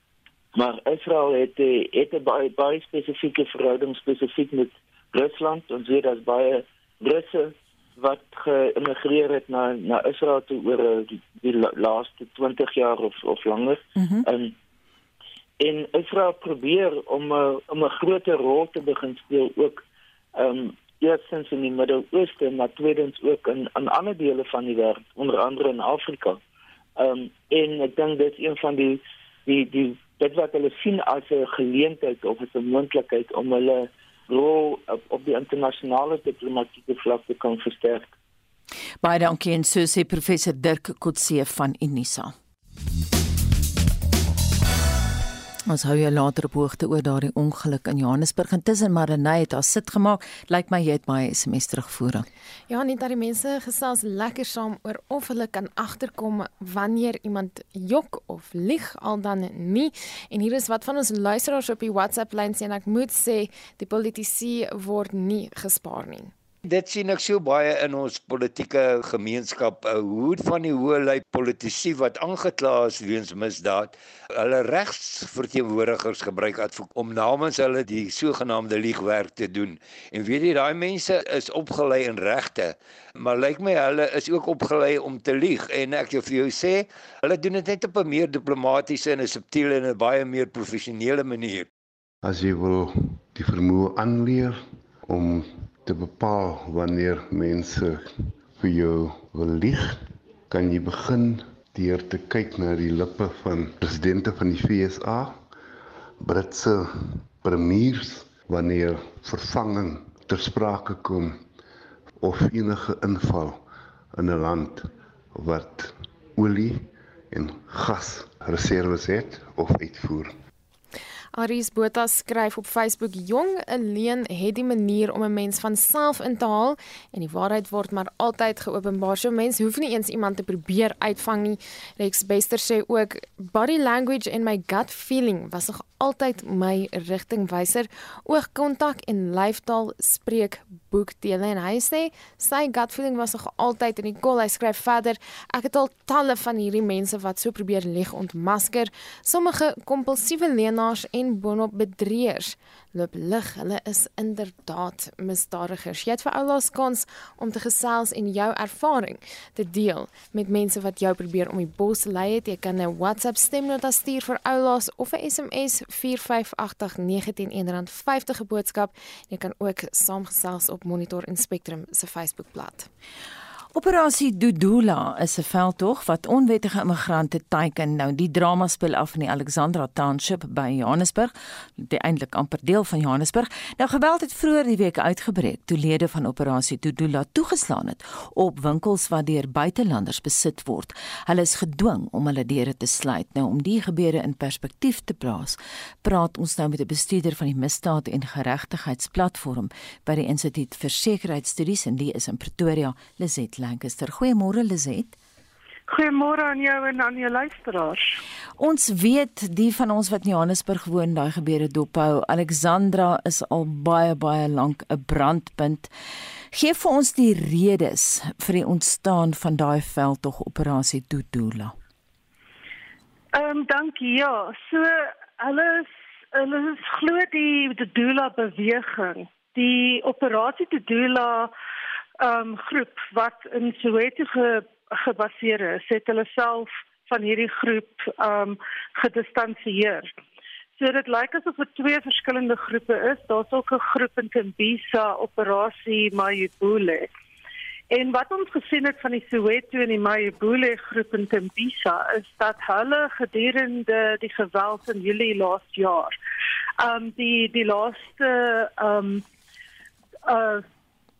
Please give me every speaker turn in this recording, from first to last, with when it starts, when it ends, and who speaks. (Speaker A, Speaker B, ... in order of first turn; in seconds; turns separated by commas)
Speaker A: 0.6-14.5, Speaker B: 13.9-14.2, Speaker A: 15.6-19.8, Speaker A: 20.4-26.4, Speaker A: 27.0-38.1, Speaker B: 39.0-42.3, Speaker B: 45.7-52.3, Speaker C: 52.7-66.3, Speaker D: 66.6-91.7, Speaker E: 92.2-105.5, Speaker E: 106.2-111.4, Speaker E: 112.2-113.6, Speaker E: 114.1-120.4, Speaker C: 121.3-172.9, Speaker B: 173.8-205.1, Speaker F: 205.9-208.2, Speaker B: 208.6-215.9, Speaker B: 216.5-221.8, Speaker F: 223.3-231.5, Speaker F: 232.2-240.1, Speaker F: 240.8-247.1, Speaker F: 247.9-256.1, Speaker F: 256.8-259.2, Speaker F: 260.2-260.6